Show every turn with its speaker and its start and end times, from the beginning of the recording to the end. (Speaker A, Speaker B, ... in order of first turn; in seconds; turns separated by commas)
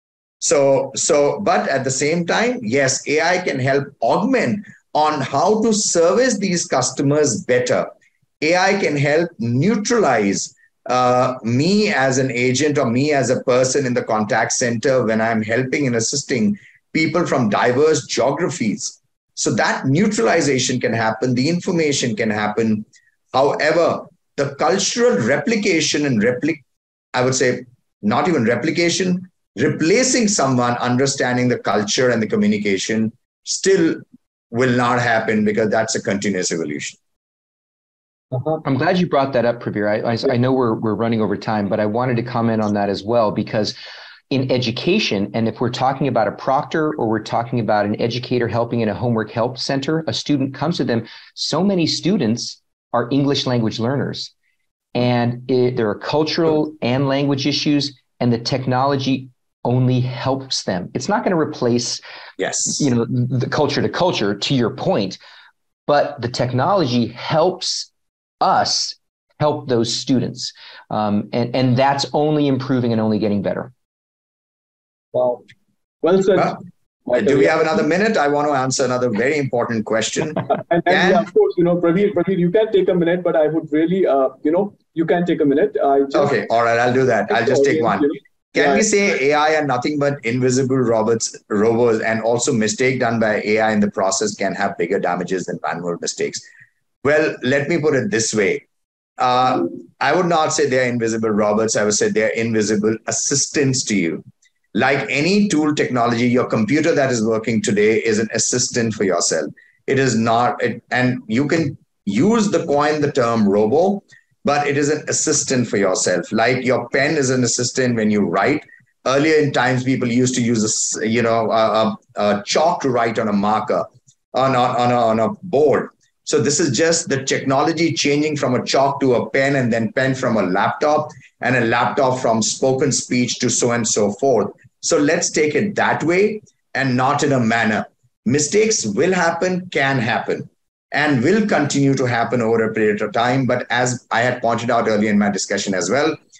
Speaker A: 0.4-7.9, Speaker A: 8.4-26.6, Speaker A: 27.1-37.0, Speaker B: 38.3-38.6, Speaker C: 38.6-43.7, Speaker C: 44.3-54.3, Speaker C: 54.9-62.0, Speaker A: 62.4-62.9, Speaker C: 62.7-65.2, Speaker C: 65.9-67.9, Speaker C: 68.4-73.7, Speaker B: 75.1-75.4, Speaker B: 76.0-77.7, Speaker A: 77.1-81.3, Speaker B: 80.7-86.4, Speaker A: 86.1-96.4, Speaker B: 87.3-88.8, Speaker A: 97.0-98.6, Speaker A: 99.2-146.2